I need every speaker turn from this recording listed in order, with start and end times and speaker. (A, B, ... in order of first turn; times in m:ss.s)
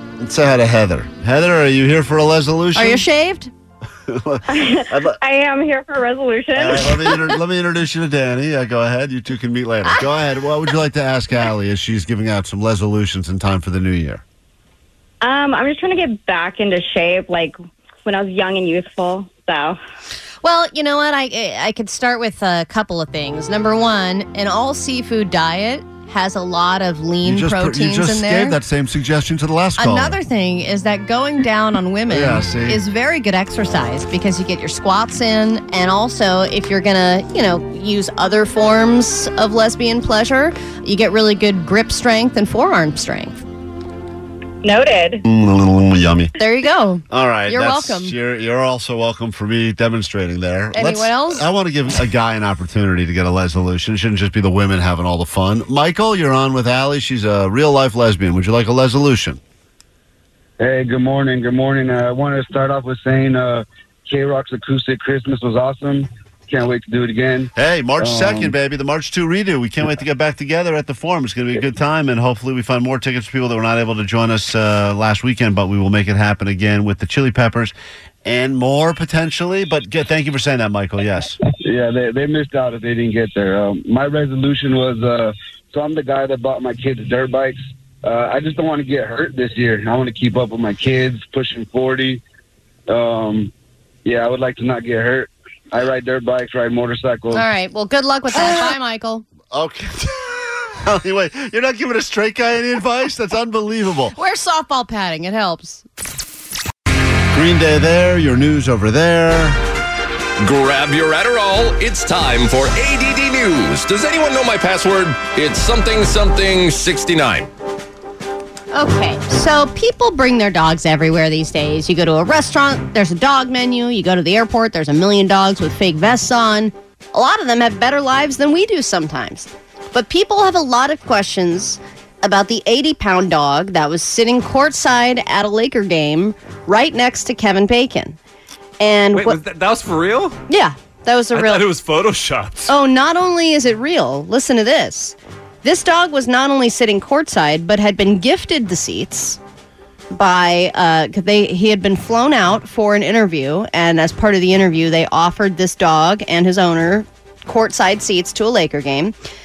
0:00.2-0:03.0 A
0:02.8-0:03.5 B
0:04.1-0:05.2 A
0:04.5-0:07.4 C
0:06.5-0:14.2 A
0:15.2-0:19.8 C
0:20.4-0:28.6 B
0:27.2-0:30.2 A
0:29.8-0:43.4 B
0:32.1-0:32.8 A
0:44.6-0:45.2 C
0:45.2-0:46.3 A
0:46.4-0:48.1 B
0:47.1-0:59.4 A
0:50.7-0:51.4 B
1:00.6-1:08.5 D
1:07.5-1:17.7 A
1:18.2-1:21.4 A
1:21.6-1:32.2 D
1:32.9-1:33.5 D
1:34.0-1:37.5 D
1:37.3-1:39.2 B
1:38.3-1:38.7 A
1:39.5-1:44.1 A
1:44.2-1:45.8 B
1:47.3-1:49.6 A
1:50.4-1:57.5 E
1:58.7-2:18.2 B
2:18.8-2:19.4 B
2:19.1-2:20.4 F
2:20.5-2:21.7 B
2:21.3-2:22.7 F
2:22.7-2:29.4 B
2:30.1-2:39.1 B